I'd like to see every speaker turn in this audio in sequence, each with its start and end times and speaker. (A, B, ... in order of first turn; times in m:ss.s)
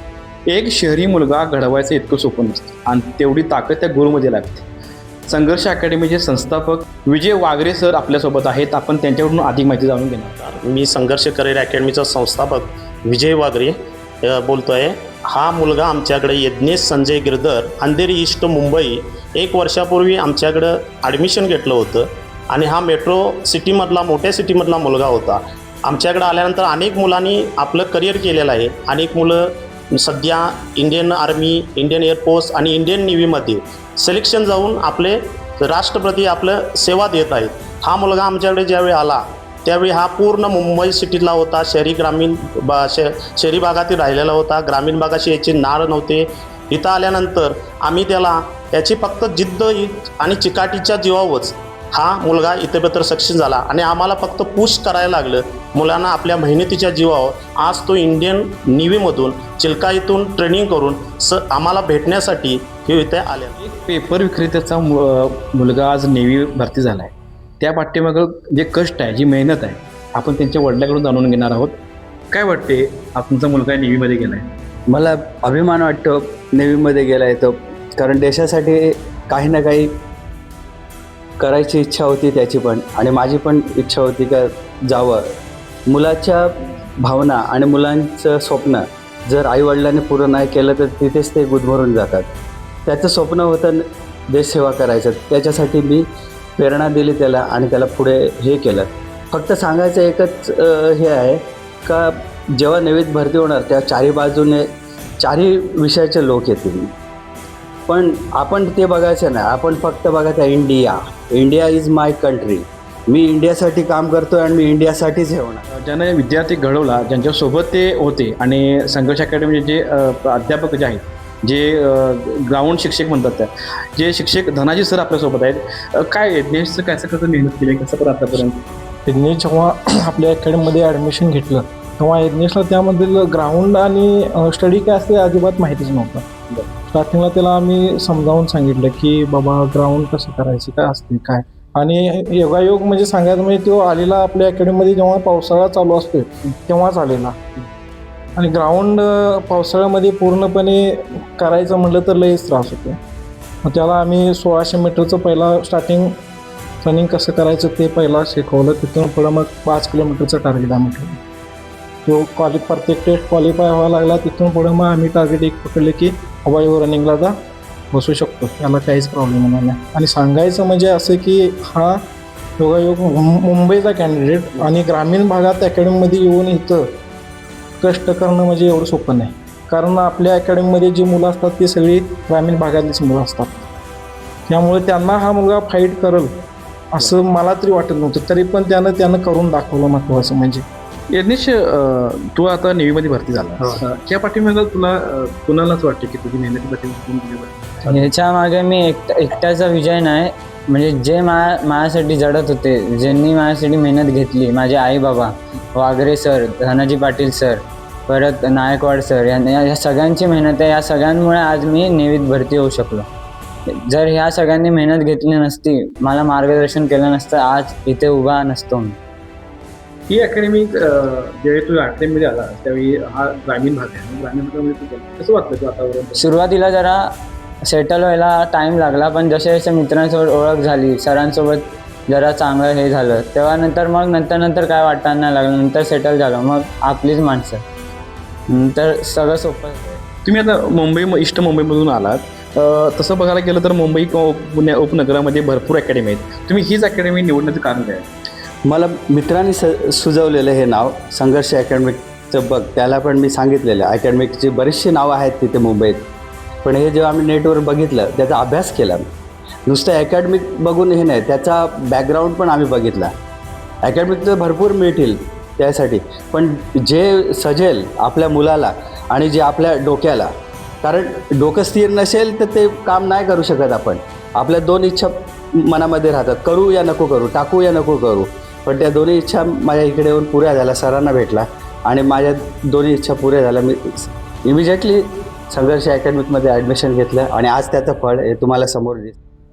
0:00.5-0:04.7 A
0:05.3-0:10.4 A
0:10.4-1:03.6 B
1:03.6-1:11.8 A
1:12.3-1:14.5 A
1:14.9-1:19.9 C
1:21.4-1:25.3 C
1:25.9-1:32.3 C
1:32.9-1:36.1 C
1:36.6-1:44.7 C
1:45.2-1:46.9 C
1:47.9-1:55.6 C
1:55.7-2:08.6 A
2:09.1-2:16.2 D
2:16.9-2:27.4 D
2:28.4-2:33.0 D
2:33.6-2:36.1 D
2:36.8-2:41.2 D
2:42.1-2:47.3 D
2:47.9-2:52.0 D
2:52.6-2:56.9 D
2:57.8-3:03.6 D
3:04.5-3:06.3 D
3:06.9-3:10.6 D
3:11.1-3:18.1 A
3:17.9-3:33.1 E
3:33.7-3:39.0 E
3:40.1-3:46.3 A
3:46.2-3:47.0 E
3:47.6-3:57.6 E
3:58.5-4:00.0 E
4:00.2-4:08.1 A
4:08.7-4:16.0 C
4:16.6-4:19.1 C
4:19.7-4:23.1 C
4:23.8-4:30.3 C
4:30.8-4:49.2 C